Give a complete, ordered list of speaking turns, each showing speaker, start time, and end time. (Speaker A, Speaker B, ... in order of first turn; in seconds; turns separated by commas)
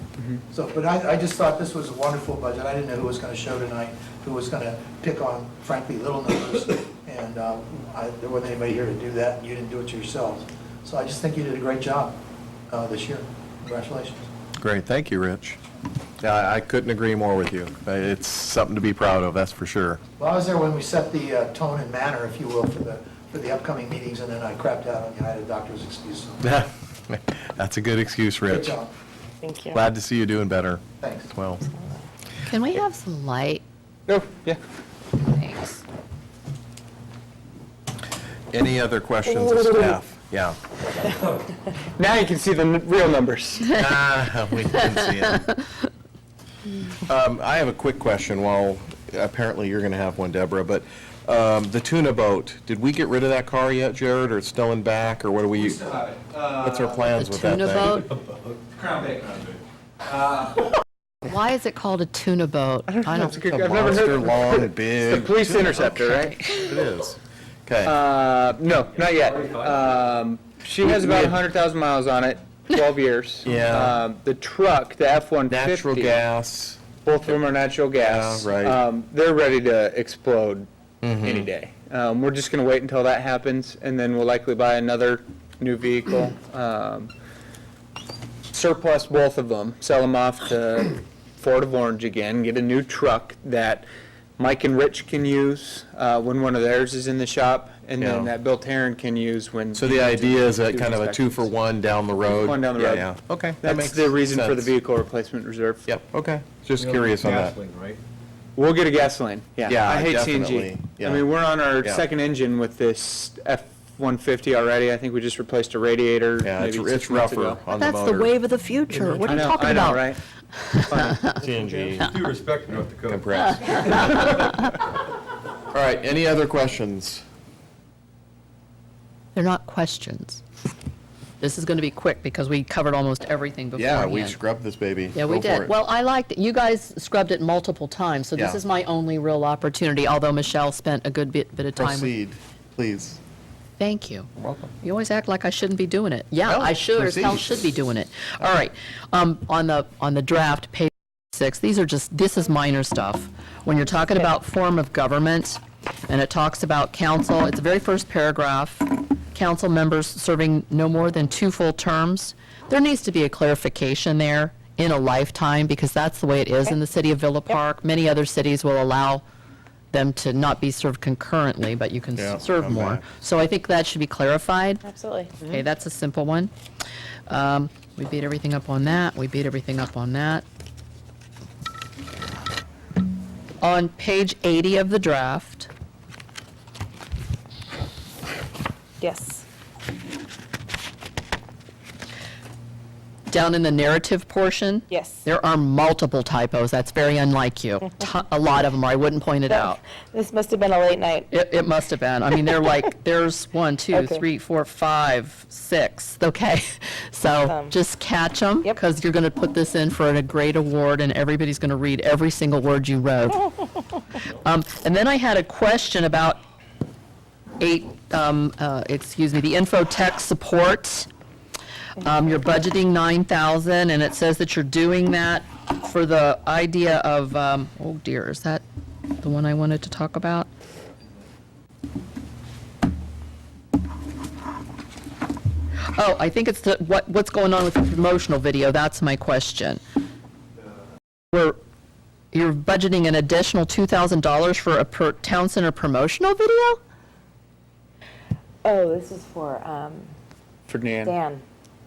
Speaker A: 0.5-12.2, Speaker A: 12.7-14.3, Speaker B: 14.6-15.6, Speaker B: 16.2-20.0, Speaker A: 20.2-26.4, Speaker B: 26.4-28.8, Speaker A: 28.5-28.9, Speaker C: 29.4-29.8, Speaker B: 29.7-31.7, Speaker A: 31.0-31.3, Speaker C: 31.7-32.0, Speaker D: 32.5-33.6, Speaker E: 34.1-34.6, Speaker D: 35.2-35.8, Speaker B: 38.5-40.6, Speaker E: 42.0-43.8, Speaker B: 43.7-45.5, Speaker D: 44.8-45.3, Speaker B: 47.0-55.8, Speaker E: 55.5-57.0, Speaker B: 56.6-58.0, Speaker D: 57.1-58.1, Speaker E: 58.7-60.8, Speaker D: 61.2-63.5, Speaker E: 62.9-66.4, Speaker B: 63.3-68.0, Speaker D: 66.0-66.8, Speaker E: 67.8-76.2, Speaker F: 69.3-69.8, Speaker B: 70.8-71.4, Speaker B: 73.5-74.0, Speaker B: 75.5-76.8, Speaker E: 77.0-80.7, Speaker B: 78.0-78.8, Speaker B: 81.0-81.5, Speaker E: 81.2-87.1, Speaker E: 88.5-93.9, Speaker E: 94.4-101.5, Speaker B: 98.0-98.3, Speaker B: 99.8-104.7, Speaker E: 102.2-105.9, Speaker B: 105.9-107.6, Speaker F: 106.8-108.0, Speaker E: 108.6-117.6, Speaker B: 109.7-112.0, Speaker B: 116.4-118.3, Speaker D: 117.7-120.1, Speaker F: 118.9-119.5, Speaker E: 119.2-120.2, Speaker D: 120.6-121.2, Speaker E: 120.9-121.3, Speaker B: 121.3-122.1, Speaker F: 121.5-124.5, Speaker B: 123.1-124.3, Speaker B: 125.7-127.2, Speaker D: 129.3-130.4, Speaker D: 131.4-134.4, Speaker B: 133.8-135.8, Speaker D: 135.1-142.2, Speaker B: 138.4-138.6, Speaker B: 141.8-143.2, Speaker D: 143.8-144.3, Speaker B: 144.4-144.7, Speaker D: 144.8-169.2, Speaker B: 146.4-147.7, Speaker D: 169.9-174.8, Speaker B: 172.2-173.2, Speaker C: 174.8-175.4, Speaker D: 175.4-176.5, Speaker D: 177.3-180.4, Speaker D: 183.6-185.7, Speaker C: 189.0-189.5, Speaker D: 193.3-199.8, Speaker C: 194.9-195.3, Speaker C: 199.5-201.3, Speaker D: 201.3-213.7, Speaker C: 203.9-204.2, Speaker C: 207.4-207.8, Speaker D: 214.2-216.4, Speaker D: 217.6-221.1, Speaker D: 222.0-228.6, Speaker D: 229.2-230.5, Speaker D: 235.9-239.8, Speaker D: 241.3-241.6, Speaker D: 242.3-246.8, Speaker C: 248.6-250.1, Speaker E: 250.7-251.2, Speaker C: 251.0-251.4